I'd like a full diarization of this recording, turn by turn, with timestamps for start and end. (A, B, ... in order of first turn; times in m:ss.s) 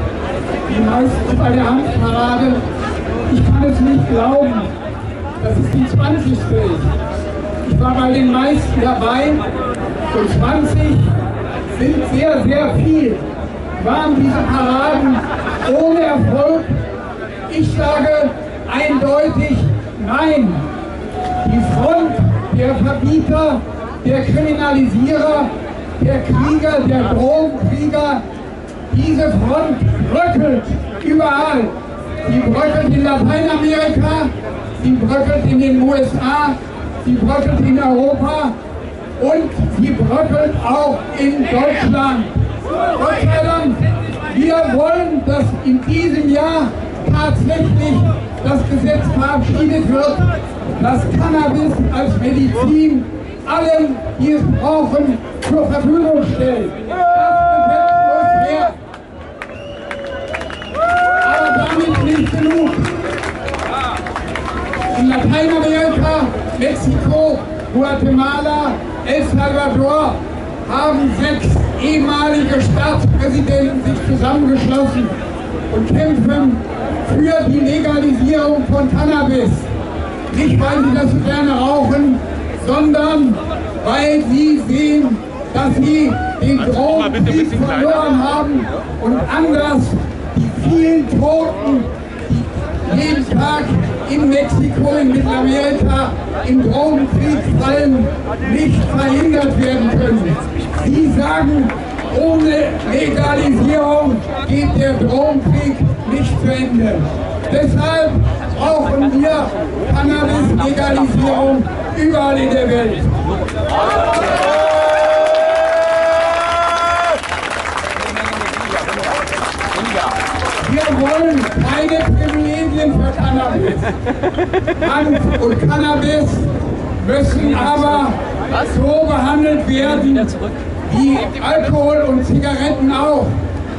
0:00.7-0:02.6 A
0:03.3-0:04.7 A
0:05.4-0:06.9 A
0:07.6-0:09.4 A
0:10.1-0:11.2 A
0:11.7-0:13.3 A
0:13.8-0:16.8 A
0:17.5-0:20.7 A
0:21.4-0:28.2 A
0:28.9-0:38.6 A
0:39.2-0:58.8 A
1:01.2-1:02.9 A
1:04.9-1:15.1 A
1:15.7-1:19.7 A
1:20.3-1:53.2 A
2:00.6-2:03.9 A
2:04.8-2:13.4 A